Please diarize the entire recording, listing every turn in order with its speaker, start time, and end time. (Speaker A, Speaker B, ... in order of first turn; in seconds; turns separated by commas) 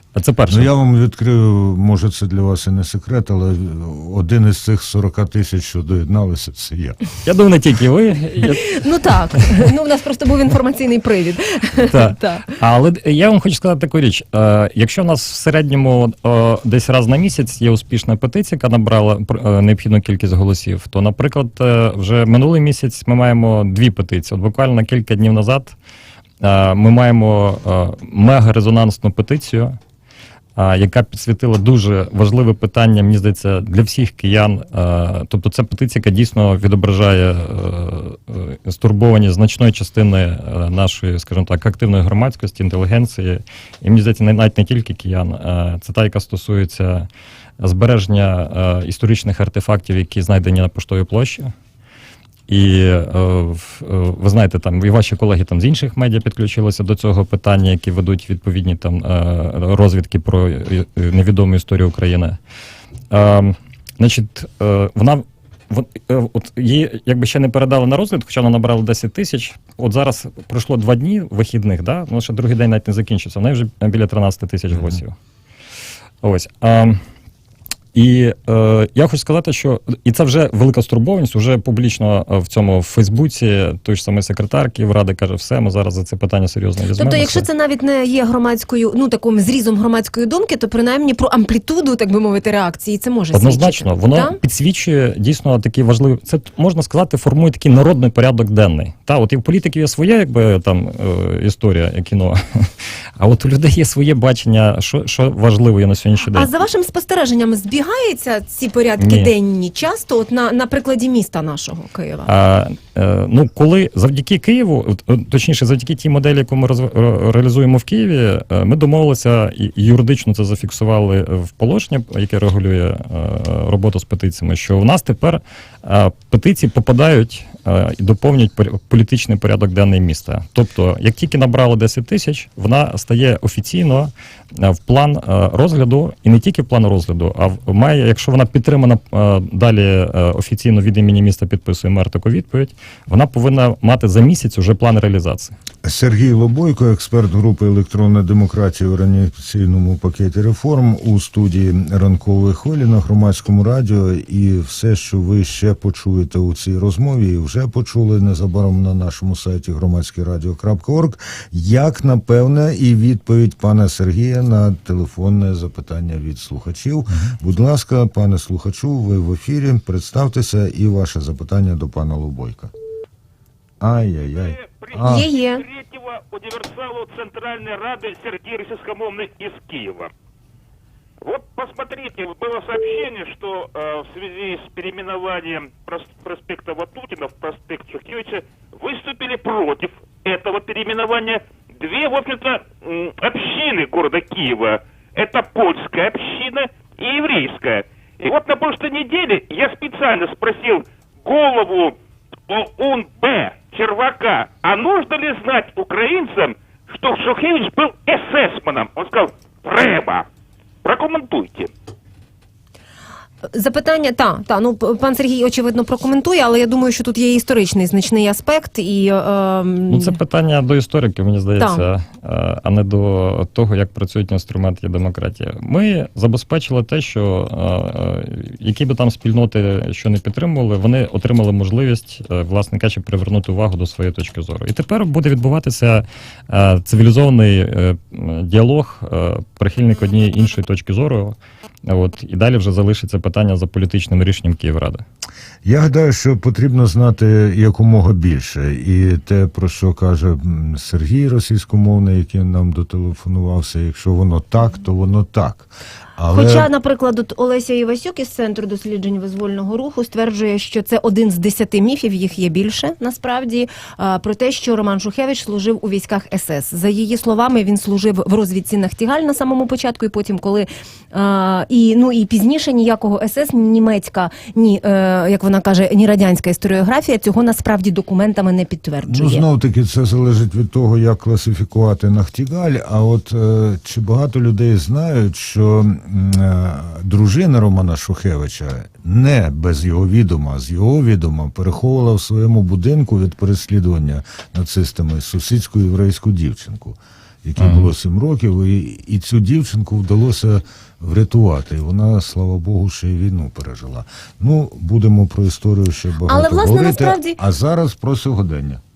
Speaker A: 0.1-0.7, Speaker B: 0.5-7.0, Speaker A: 7.2-9.6, Speaker C: 8.6-12.6, Speaker A: 11.9-25.8, Speaker A: 26.4-29.8, Speaker A: 30.6-47.1, Speaker A: 47.6-51.5, Speaker A: 52.5-62.4, Speaker A: 63.1-75.2, Speaker A: 76.2-77.0, Speaker A: 77.9-87.5, Speaker C: 86.9-94.4, Speaker A: 93.3-106.5, Speaker C: 106.3-112.3, Speaker A: 109.0-109.3, Speaker A: 112.3-145.6, Speaker B: 145.8-172.7, Speaker B: 173.8-175.3, Speaker D: 174.1-180.1, Speaker C: 175.1-175.7, Speaker D: 181.2-202.0, Speaker D: 202.5-210.3, Speaker D: 210.8-211.7, Speaker C: 213.5-220.2, Speaker A: 219.9-245.1, Speaker C: 221.6-221.8, Speaker B: 245.6-256.7, Speaker C: 256.3-279.5, Speaker B: 279.1-308.8, Speaker A: 297.6-297.9, Speaker C: 306.3-307.4